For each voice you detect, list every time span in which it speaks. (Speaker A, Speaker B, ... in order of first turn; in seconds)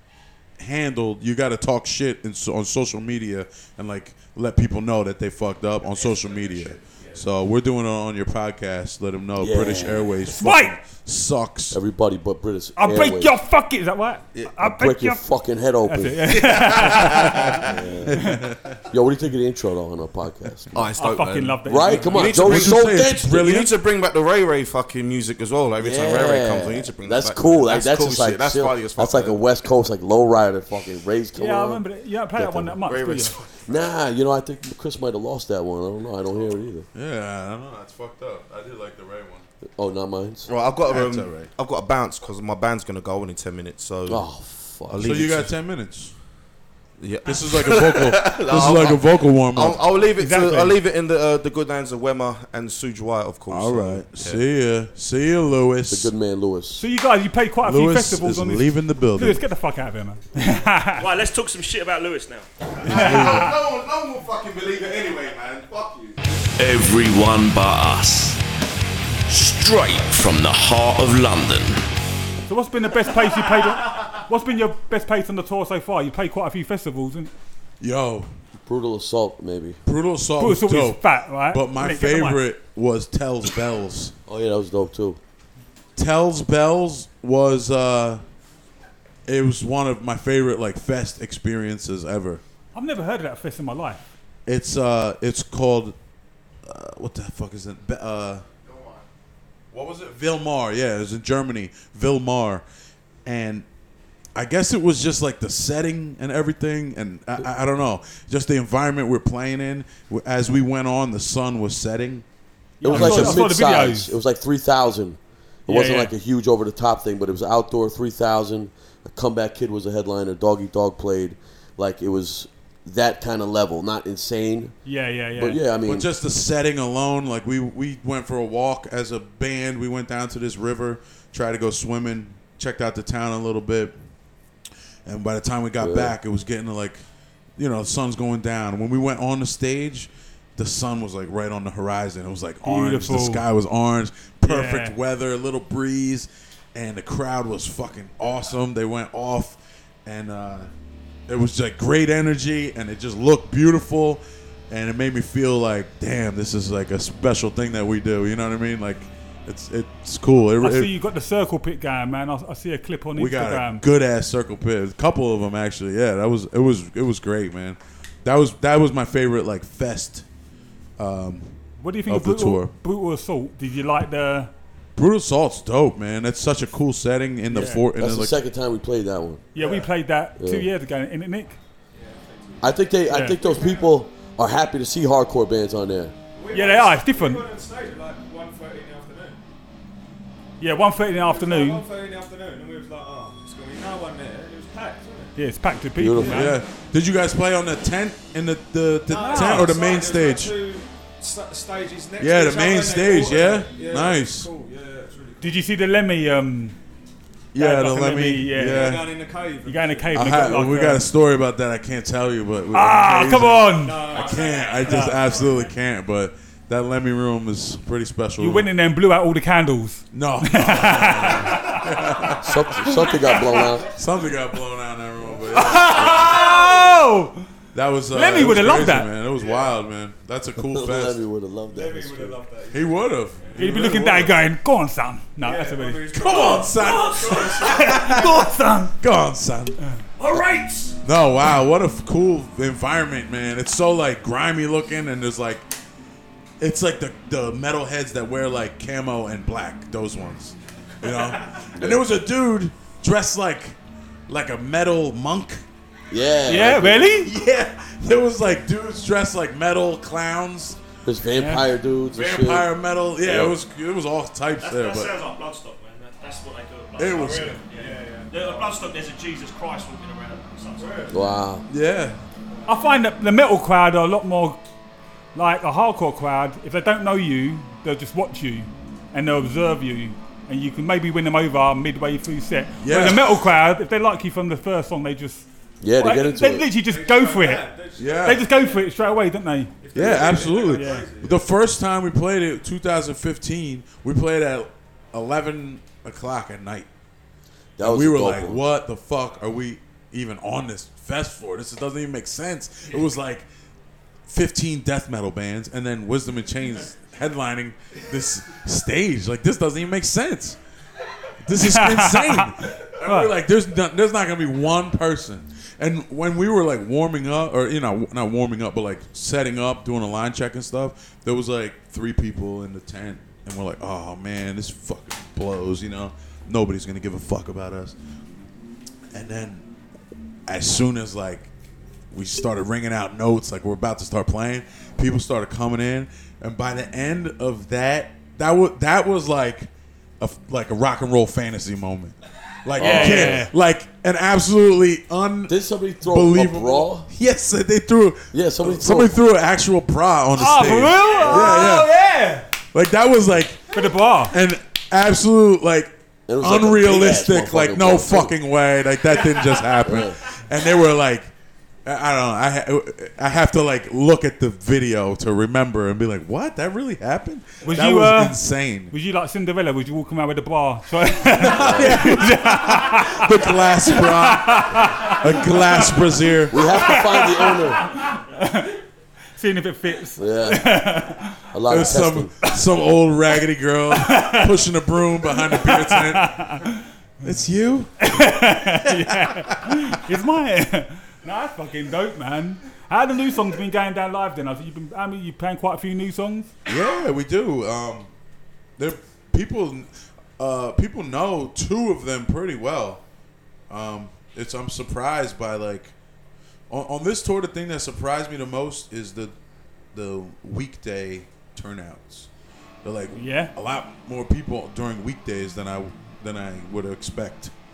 Speaker A: 0.6-11.8, 18.1-18.8, 22.1-23.7, 36.9-39.4, 40.9-41.5, 45.0-46.1, 47.2-49.8, 53.5-56.1, 57.6-59.4, 62.8-63.5, 77.8-78.3, 79.9-84.1, 86.0-88.2, 89.3-92.4, 94.5-95.9, 96.6-98.4, 99.7-102.6, 103.3-103.7, 104.3-112.2, 112.9-113.5, 125.8-133.9, 135.1-137.0, 137.6-150.7, 151.3-160.9, 163.1-170.2, 171.0-172.8, 174.9-178.4, 196.3-200.6, 202.2-204.5, 207.5-209.1, 210.1-218.7, 220.1-223.1, 223.9-226.2, 227.7-231.2, 232.7-234.3, 236.1-238.4, 239.0-239.8, 241.0-245.7, 246.6-253.8, 254.3-255.6, 257.2-260.8, 262.1-265.2, 267.0-267.6, 271.7-272.2, 282.8-283.5, 288.0-288.4, 289.9-296.9, 297.8-303.4, 304.3-310.6, 311.4-327.9, 329.1-329.6, 330.5-331.5, 332.1-352.0, 352.7-353.7, 354.3-361.3, 361.9-368.9, 371.3-376.6, 381.7-386.6, 387.2-389.9, 396.7-398.1, 398.8-403.0, 403.7-405.9, 406.7-409.3, 409.9-412.3, 412.8-417.5
Speaker B: 9.4-10.1, 11.7-13.4, 14.6-16.4, 17.6-18.3, 18.9-20.8, 21.6-23.5, 25.8-31.8, 32.4-32.8, 33.7-36.9, 39.8-40.5, 44.1-45.3, 55.9-56.9, 78.6-79.8, 84.3-85.2, 112.8-124.8, 125.4-126.1, 135.8-136.1, 178.0-179.5, 180.4-180.7, 182.6-186.1, 196.0-196.5, 222.4-223.9, 230.6-232.5, 251.8-252.0, 256.1-257.1, 261.1-263.6, 271.1-271.6, 285.8-286.7, 297.8-298.6, 342.8-343.4, 345.5-347.1, 348.3-349.1, 356.3-358.4, 359.8-360.2, 371.6-372.0, 376.5-377.9, 380.2-380.8, 381.5-382.3
Speaker C: 10.2-10.8, 12.8-15.3, 15.9-17.6, 20.9-22.3, 31.4-33.4, 50.2-50.8, 56.8-61.1, 62.9-63.5, 72.5-77.3, 80.4-82.4, 92.7-94.1, 112.8-114.1, 115.7-116.1, 124.8-125.6, 142.6-143.4, 144.4-144.9, 160.6-163.8, 171.8-174.5, 177.5-177.9, 179.6-181.6, 183.1-183.4, 186.5-187.4, 190.6-191.8, 195.4-196.6, 199.2-199.8, 205.4-206.8, 207.6-209.0, 209.6-211.1, 212.7-214.2, 214.8-215.3, 218.4-221.8, 225.5-227.4, 228.1-229.1, 233.6-236.1, 237.6-239.0, 256.4-257.3, 261.4-261.7, 272.6-274.6, 275.4-285.4, 286.0-289.8, 290.6-291.1, 311.6-313.3, 342.8-343.5, 350.4-352.4, 353.7-354.4, 367.6-368.4, 368.9-376.0, 376.7-378.8, 379.4-381.5, 383.9-384.6, 385.3-387.4, 388.0-396.5, 413.1-413.5
Speaker D: 16.4-17.6, 20.7-29.4, 32.9-33.9, 40.5-44.2, 44.9-45.5, 47.0-54.4, 62.8-66.2
Speaker E: 61.0-62.5, 214.3-214.9, 236.8-237.4, 240.2-241.0, 264.6-271.1
Speaker F: 66.6-68.4, 69.3-71.8
Speaker G: 179.6-179.9, 181.9-184.0, 186.3-189.4, 191.2-195.4, 196.2-196.6, 199.1-205.6, 208.6-210.6, 213.8-215.8, 225.2-227.0, 229.3-229.8, 231.7-234.3, 235.4-238.2, 267.1-268.9, 270.8-271.3, 286.8-288.9, 289.8-291.5, 351.0-352.2